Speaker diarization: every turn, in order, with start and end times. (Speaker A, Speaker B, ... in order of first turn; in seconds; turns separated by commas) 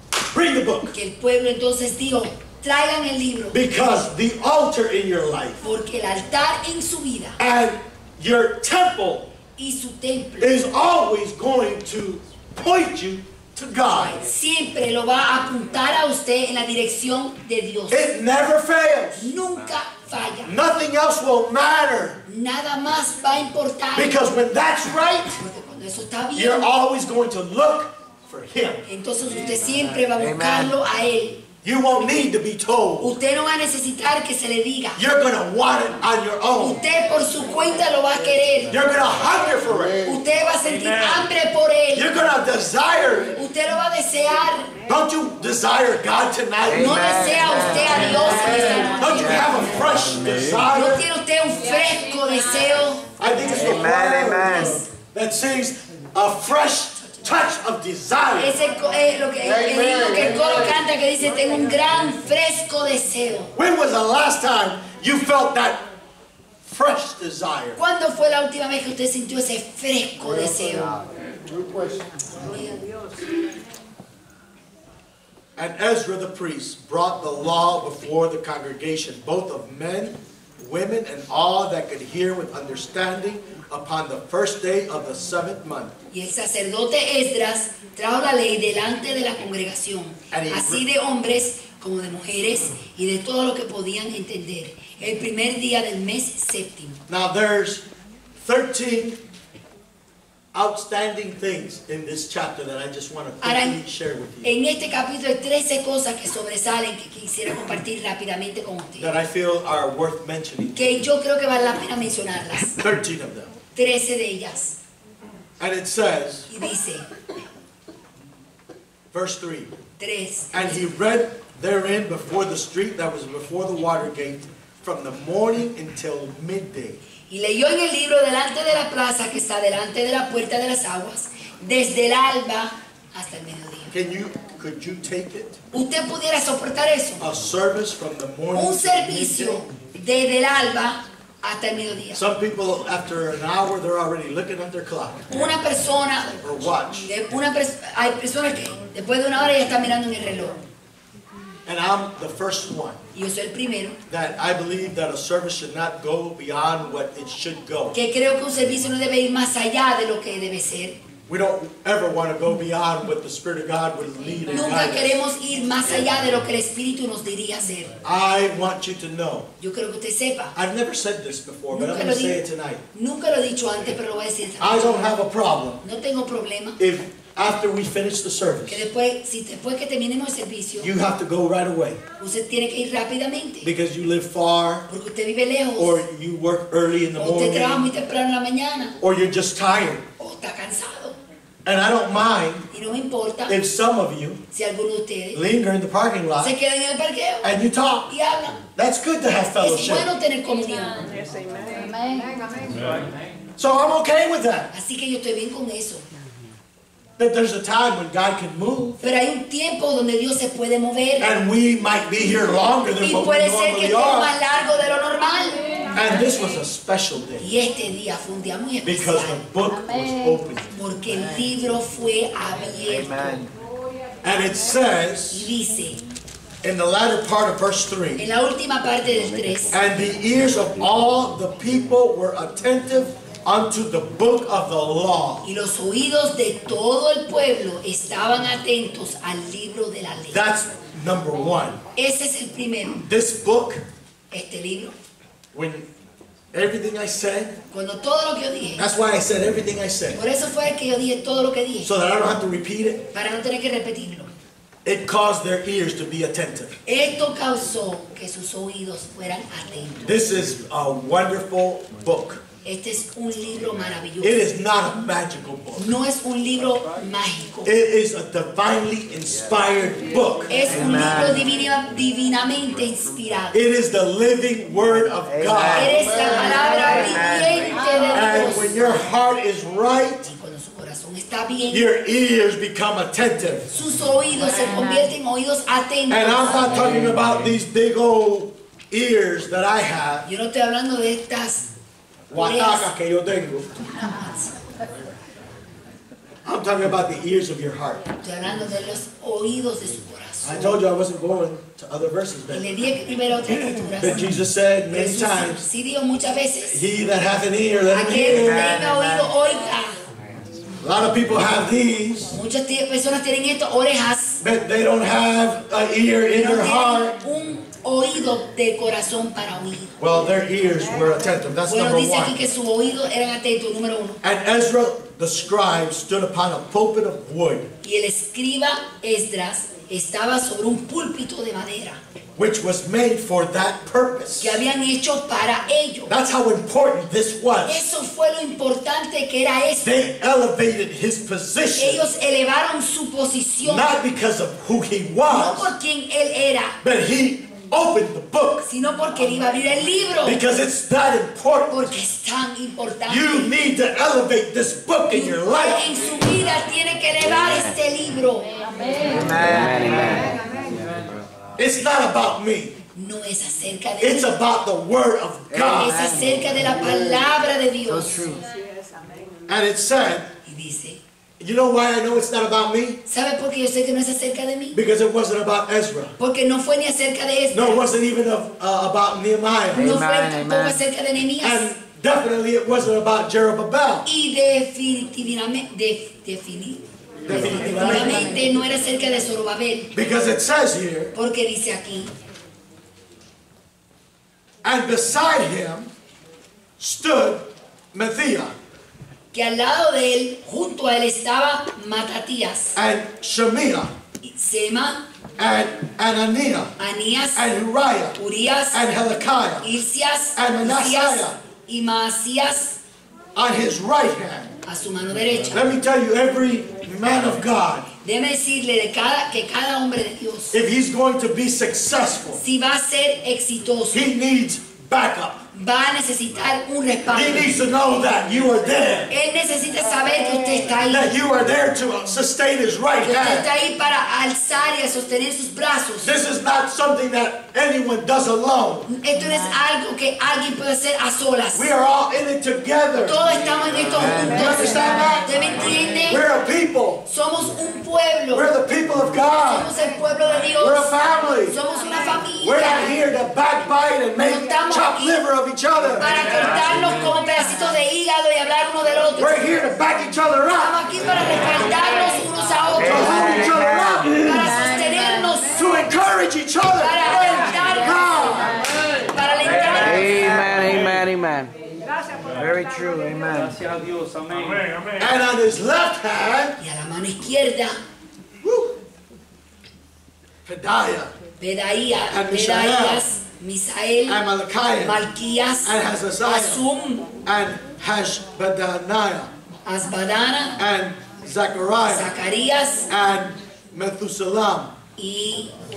Speaker A: 0.3-0.9, Speaker B: 0.9-3.7, Speaker A: 3.5-5.6, Speaker B: 5.6-7.4, Speaker A: 7.4-9.3, Speaker B: 9.6-10.5, Speaker A: 10.4-14.2, Speaker B: 13.9-18.1, Speaker A: 17.9-19.3, Speaker B: 19.2-20.5, Speaker A: 20.4-22.2, Speaker B: 22.2-24.1, Speaker A: 23.9-25.4, Speaker B: 25.4-26.7, Speaker A: 26.3-28.8, Speaker B: 28.9-31.4, Speaker C: 30.2-30.8, Speaker A: 31.6-33.1, Speaker B: 33.0-35.0, Speaker A: 35.0-36.8, Speaker B: 36.6-38.7, Speaker A: 38.7-40.1, Speaker B: 40.0-42.1, Speaker A: 41.9-43.4, Speaker B: 43.4-44.7, Speaker A: 44.9-47.0, Speaker C: 46.6-49.5, Speaker B: 46.7-49.6, Speaker A: 48.8-51.0, Speaker B: 50.7-53.0, Speaker A: 53.2-58.5, Speaker C: 53.5-54.8, Speaker B: 58.4-63.5, Speaker A: 63.5-65.9, Speaker A: 66.6-67.8, Speaker B: 67.8-71.0, Speaker B: 72.4-72.8, Speaker A: 75.6-85.9, Speaker B: 86.1-97.0, Speaker A: 90.3-90.8, Speaker A: 97.1-97.8, Speaker A: 98.4-99.2, Speaker A: 100.5-104.5, Speaker B: 103.4-103.8, Speaker B: 104.4-109.1, Speaker A: 109.0-110.9, Speaker B: 110.8-112.8, Speaker A: 112.8-113.5, Speaker B: 113.7-114.8, Speaker A: 115.6-116.5, Speaker B: 116.5-117.0, Speaker A: 119.1-119.7, Speaker B: 120.0-120.8, Speaker A: 120.5-127.0, Speaker B: 127.3-133.9, Speaker A: 133.9-135.6, Speaker B: 135.7-137.2, Speaker A: 137.2-139.6, Speaker B: 138.5-142.2, Speaker A: 142.1-145.2, Speaker B: 145.3-146.4, Speaker A: 146.4-147.1, Speaker B: 147.1-150.6, Speaker A: 151.7-153.0, Speaker B: 153.1-154.0, Speaker A: 154.1-157.9, Speaker B: 157.9-161.0, Speaker A: 161.3-165.2, Speaker B: 164.5-167.9, Speaker A: 168.0-169.5, Speaker B: 169.6-170.5, Speaker A: 170.5-172.8, Speaker B: 171.7-172.4, Speaker B: 172.9-175.1, Speaker A: 174.6-175.8, Speaker B: 175.8-176.8, Speaker A: 176.8-178.9, Speaker B: 178.7-180.9, Speaker A: 180.8-182.0, Speaker B: 182.2-183.7, Speaker A: 183.6-184.9, Speaker B: 184.9-186.0, Speaker A: 185.8-187.9, Speaker B: 187.2-188.9, Speaker A: 189.0-190.1, Speaker B: 190.2-191.2, Speaker A: 191.6-192.7, Speaker B: 192.7-193.6, Speaker A: 193.5-194.4, Speaker B: 194.5-195.4, Speaker A: 195.3-196.5, Speaker B: 196.4-197.5, Speaker A: 197.4-198.1, Speaker B: 198.1-198.6, Speaker A: 198.8-200.1, Speaker B: 199.4-201.0, Speaker A: 203.6-204.7, Speaker B: 204.7-206.0, Speaker A: 207.2-209.0, Speaker B: 209.0-211.3, Speaker A: 211.2-214.4, Speaker B: 213.0-215.6, Speaker A: 215.9-217.5, Speaker B: 217.4-219.4, Speaker A: 218.8-220.7, Speaker B: 220.7-223.2, Speaker C: 222.9-223.5, Speaker A: 224.2-225.5, Speaker B: 225.3-226.0, Speaker A: 226.6-228.2, Speaker B: 228.2-229.8, Speaker A: 229.7-235.5, Speaker B: 235.4-240.4, Speaker A: 240.3-241.8, Speaker B: 241.9-243.0, Speaker A: 243.0-243.8, Speaker B: 244.3-244.9, Speaker A: 245.5-245.9, Speaker A: 246.5-247.6, Speaker B: 247.7-248.9, Speaker A: 248.8-250.2, Speaker B: 250.1-251.9, Speaker A: 251.8-253.1, Speaker B: 253.1-254.3, Speaker A: 254.8-256.8, Speaker B: 256.9-260.0, Speaker A: 260.0-262.4, Speaker B: 262.6-264.4, Speaker A: 264.2-265.9, Speaker B: 265.8-267.7, Speaker A: 267.6-270.7, Speaker B: 270.5-273.5, Speaker C: 270.7-271.4, Speaker A: 273.5-276.6, Speaker C: 275.2-278.2, Speaker B: 275.7-279.0, Speaker A: 278.1-280.3, Speaker B: 280.3-281.9, Speaker A: 281.7-283.7, Speaker B: 283.7-286.6, Speaker A: 286.1-290.3, Speaker B: 290.2-291.6, Speaker A: 292.3-293.9, Speaker B: 292.3-292.9, Speaker B: 294.0-294.5, Speaker A: 296.4-298.0, Speaker B: 298.2-300.8, Speaker A: 300.4-302.6, Speaker B: 302.5-304.3, Speaker A: 304.0-305.7, Speaker B: 304.9-306.8, Speaker A: 306.6-308.8, Speaker B: 307.9-310.0, Speaker C: 308.2-309.3, Speaker A: 310.8-312.4, Speaker B: 312.3-314.4, Speaker A: 314.4-317.1, Speaker B: 316.3-319.9, Speaker A: 320.0-322.4, Speaker B: 321.7-324.2, Speaker A: 324.2-327.7, Speaker B: 327.8-332.0, Speaker A: 332.4-334.6, Speaker B: 334.4-336.1, Speaker A: 336.1-337.8, Speaker B: 337.6-339.9, Speaker A: 339.8-342.0, Speaker B: 341.8-343.9, Speaker A: 343.6-345.7, Speaker B: 345.3-346.8, Speaker A: 346.8-348.7, Speaker B: 348.6-350.4, Speaker A: 350.2-351.9, Speaker B: 351.7-353.6, Speaker A: 353.1-355.9, Speaker B: 355.1-358.5, Speaker C: 359.1-360.3, Speaker A: 361.6-362.8, Speaker B: 362.9-364.3, Speaker A: 364.0-366.0, Speaker C: 365.5-366.5, Speaker B: 365.5-368.3, Speaker C: 367.9-368.4, Speaker A: 369.5-370.3, Speaker B: 370.4-371.0, Speaker A: 371.4-373.0, Speaker B: 373.1-374.8, Speaker A: 374.7-376.1, Speaker B: 376.2-377.9, Speaker A: 377.5-379.9, Speaker C: 379.7-380.8, Speaker B: 379.7-381.7, Speaker A: 381.4-384.1, Speaker B: 384.1-389.9, Speaker A: 387.2-388.5, Speaker A: 389.9-391.1, Speaker B: 391.1-392.1, Speaker A: 394.6-395.9, Speaker A: 396.8-398.5, Speaker B: 399.3-402.8, Speaker A: 402.7-403.9, Speaker B: 404.2-405.0, Speaker A: 405.4-406.7, Speaker B: 406.8-407.5, Speaker A: 407.3-408.2, Speaker B: 408.2-408.8, Speaker A: 408.7-409.7, Speaker B: 409.6-412.8, Speaker A: 410.3-411.4, Speaker A: 413.3-414.5, Speaker B: 414.6-415.7, Speaker A: 415.5-417.9, Speaker B: 418.0-420.6, Speaker A: 420.5-422.4, Speaker B: 422.4-424.1, Speaker A: 423.9-425.4, Speaker B: 425.5-427.6, Speaker A: 427.1-429.1, Speaker B: 429.1-431.1, Speaker A: 430.8-433.5, Speaker B: 433.0-436.1, Speaker A: 436.0-438.9, Speaker B: 438.9-441.7, Speaker A: 441.5-443.2, Speaker B: 442.9-446.2, Speaker C: 443.9-444.3, Speaker A: 444.2-445.3, Speaker A: 446.1-447.0, Speaker B: 447.1-448.5, Speaker A: 448.3-449.7, Speaker B: 449.4-452.9, Speaker A: 450.6-451.6, Speaker A: 452.4-456.2, Speaker B: 454.2-455.2, Speaker B: 456.0-459.4, Speaker A: 459.2-460.8, Speaker B: 460.6-463.5, Speaker C: 462.8-464.2, Speaker A: 462.8-464.7, Speaker B: 464.2-465.7, Speaker A: 465.4-468.6, Speaker B: 466.8-468.5, Speaker B: 469.1-470.4, Speaker C: 469.7-471.5, Speaker C: 472.2-473.6, Speaker A: 474.9-476.6, Speaker B: 476.6-477.8, Speaker A: 478.4-478.7, Speaker A: 480.4-481.1, Speaker B: 481.4-484.2, Speaker A: 482.1-483.0, Speaker A: 484.1-485.0, Speaker B: 484.8-487.1, Speaker A: 485.6-486.6, Speaker A: 487.2-489.3, Speaker B: 489.6-490.6, Speaker A: 490.6-492.1, Speaker B: 491.8-492.9, Speaker A: 492.9-494.7, Speaker B: 495.0-495.5